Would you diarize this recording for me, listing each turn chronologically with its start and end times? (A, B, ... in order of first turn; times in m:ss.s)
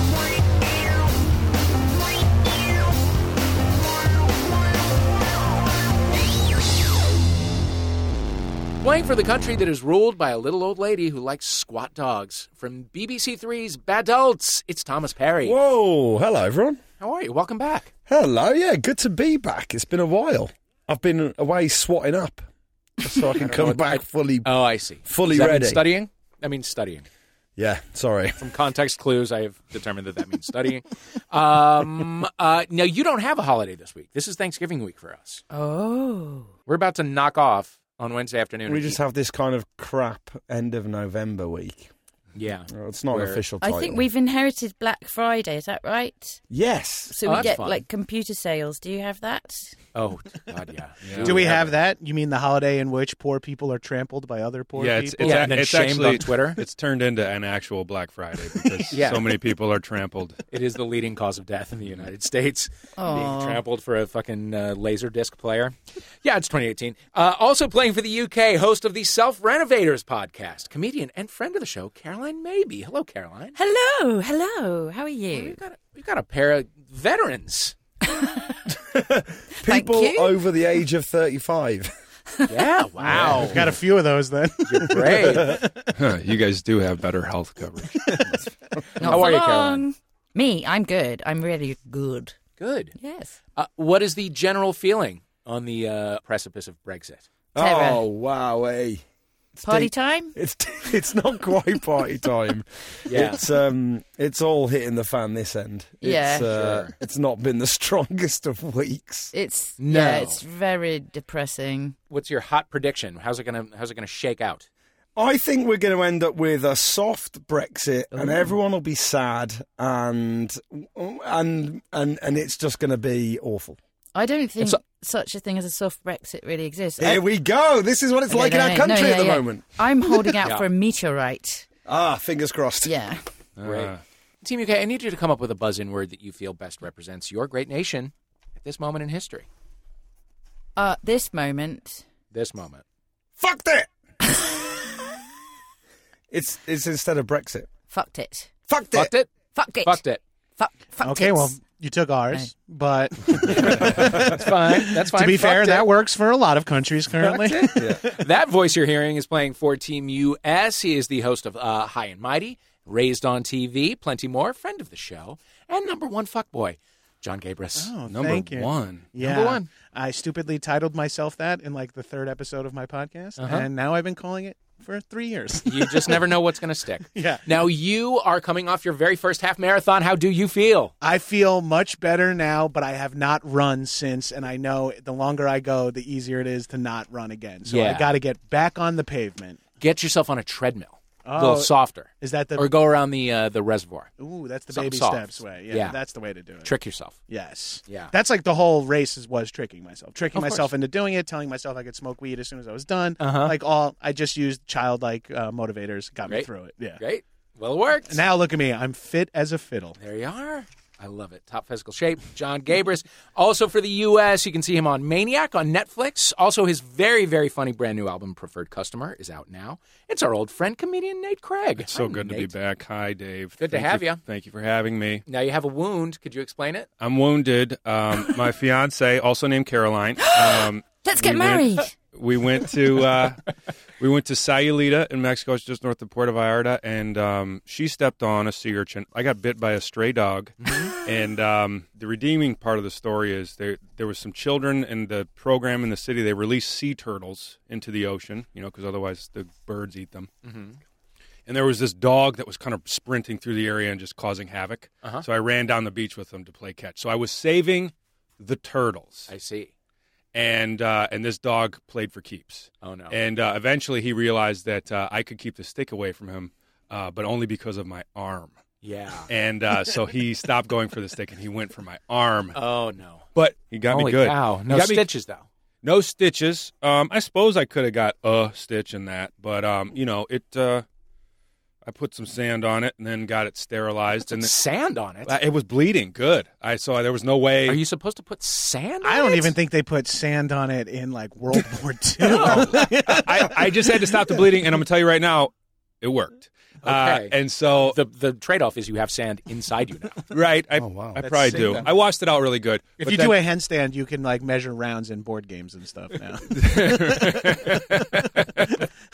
0:08.8-0:15.6 A
0:15.4-0:16.8 B
0:17.0-0:17.9 A
0:18.1-0:22.5 B
0:23.0-0:25.8 B
0:23.4-0:27.0 A
0:27.6-0:28.4 B
0:28.4-0:35.4 A
0:35.5-0:36.5 C
0:36.6-0:39.0 A
0:38.7-0:41.9 B
0:42.3-0:43.4 A
0:42.7-0:44.0 B
0:43.6-0:46.4 C
0:46.5-0:47.5 B
0:47.1-0:49.7 C
0:47.2-0:47.8 A
0:49.9-0:51.8 A
0:51.0-0:51.5 D
0:51.2-0:55.5 E
0:54.8-1:00.4 D
0:55.2-0:56.6 A
0:58.9-0:59.3 A
1:00.5-1:13.6 A
1:03.0-1:03.6 C
1:13.5-1:15.6 C
1:15.3-1:17.7 A
1:18.8-1:21.9 B
1:19.6-1:20.4 C
1:22.5-1:23.6 A
1:23.1-1:23.6 D
1:23.1-1:25.7 E
1:24.6-1:25.6 A
1:25.9-1:28.2 D
1:29.0-1:32.3 C
1:29.0-1:29.8 A
1:32.6-1:32.9 A
1:33.0-1:33.3 C
1:33.6-1:37.2 A
1:37.5-1:39.0 B
1:37.6-1:38.0 C
1:39.6-1:49.3 B
1:39.6-1:40.3 C
1:43.1-1:43.4 A
1:46.0-1:46.5 C
1:46.5-1:46.9 A
1:49.3-1:51.9 C
1:49.8-1:50.4 A
1:52.1-1:54.6 A
1:55.2-2:03.8 B
1:58.1-1:58.4 C
2:04.1-2:07.2 C
2:07.0-2:09.7 B
2:08.3-2:11.6 C
2:10.4-2:10.7 A
2:11.8-2:12.9 B
2:12.8-2:13.2 C
2:13.6-2:14.0 D
2:13.6-2:19.5 A
2:20.8-2:22.0 C
2:22.3-2:22.8 A
2:23.4-2:23.9 B
2:26.3-2:27.7 B
2:27.9-2:28.5 C
2:28.7-2:29.1 B
2:28.9-2:29.3 A
2:29.5-2:30.0 C
2:29.8-2:30.2 A
2:30.6-2:31.6 C
2:31.0-2:38.0 E
2:33.4-2:35.9 A
2:37.2-2:38.0 B
2:38.0-2:47.9 A
2:47.8-2:56.3 E
2:48.1-2:49.0 D
2:49.2-2:49.7 A
2:53.4-2:53.7 A
2:55.6-3:00.9 A
2:57.1-2:57.4 E
3:01.0-3:09.6 E
3:07.6-3:08.1 A
3:09.8-3:14.1 A
3:11.2-3:12.7 E
3:14.2-3:16.7 E
3:14.7-3:16.0 A
3:16.6-3:17.2 A
3:17.3-3:27.0 E
3:17.9-3:18.1 A
3:20.3-3:20.7 A
3:23.2-3:23.6 A
3:26.2-3:28.2 A
3:28.1-3:30.0 E
3:30.0-3:42.5 A
3:41.8-3:45.2 D
3:43.6-3:44.2 A
3:45.2-3:46.9 A
3:47.0-3:53.4 D
3:50.2-3:51.9 C
3:54.0-4:10.3 D
4:00.6-4:00.9 A
4:10.4-4:10.8 A
4:11.5-4:19.3 D
4:19.3-4:19.7 A
4:20.3-4:28.6 D
4:22.8-4:23.2 A
4:28.8-4:29.3 A
4:29.3-4:32.6 D
4:32.5-4:33.2 A
4:33.3-4:35.1 D
4:33.9-4:35.4 A
4:35.8-4:40.8 D
4:41.8-4:44.5 D
4:44.3-4:45.3 A
4:45.2-4:47.8 D
4:47.6-4:49.5 A
4:49.0-4:54.4 E
4:52.2-4:52.8 A
4:52.4-4:58.0 D
4:56.8-5:00.2 A
5:00.3-5:03.4 D
5:00.8-5:01.2 B
5:01.2-5:01.9 A
5:03.0-5:07.4 E
5:06.5-5:08.8 D